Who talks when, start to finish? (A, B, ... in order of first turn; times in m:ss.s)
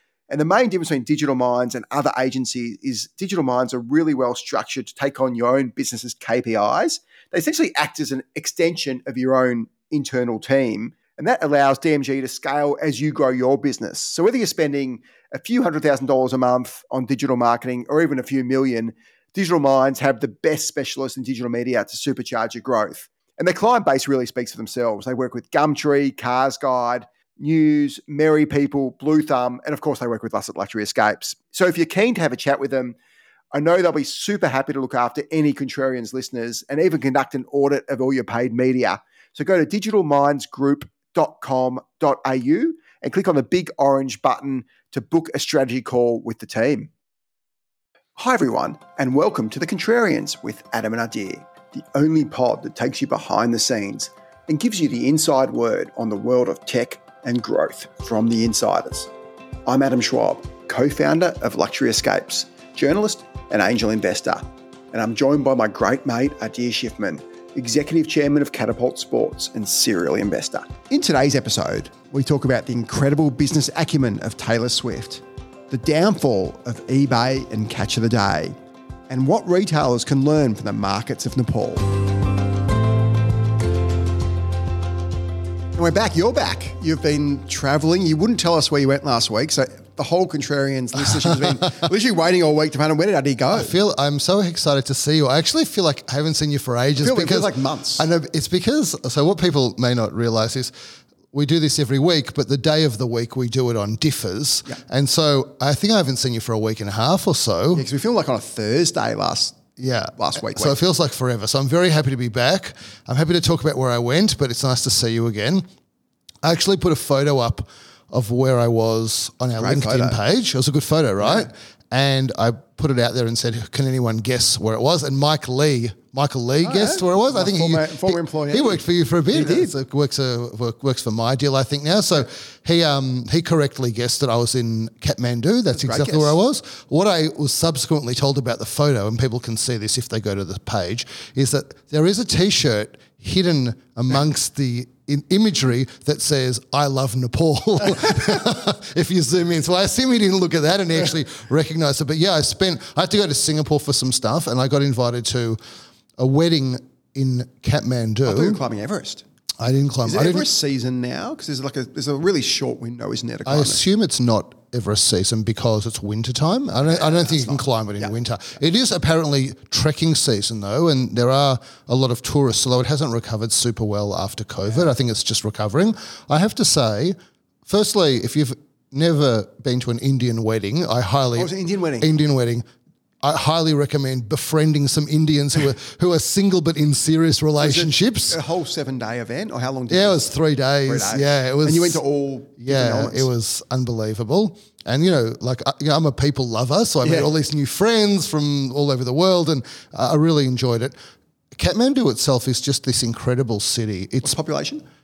0:00.3-0:33.0 A
0:33.5-0:46.9 A
0:48.2-0:59.1 A
0:59.7-1:18.6 A
1:19.1-1:21.9 A
1:25.8-1:33.7 A
1:31.1-1:31.5 B
1:33.5-1:40.7 B
1:37.0-1:38.1 A
1:41.3-1:47.9 B
1:47.7-1:49.6 A
1:49.8-1:55.7 B
1:50.2-1:50.8 A
1:56.4-2:35.6 B
1:59.6-2:00.2 A
2:01.2-2:01.5 A
2:06.6-2:09.7 A
2:15.7-2:16.4 A
2:36.2-2:38.6 B
2:38.2-2:39.2 A
2:39.6-2:40.5 B
2:40.0-2:43.8 A
2:43.5-3:02.7 B
2:46.8-2:48.1 A
3:01.4-3:02.1 A
3:03.2-3:08.4 B
3:07.6-3:10.3 A
3:09.9-3:12.0 B
3:10.8-3:13.3 A
3:12.6-3:21.0 B
3:17.0-3:17.3 A
3:21.6-3:24.4 B
3:24.2-3:24.8 A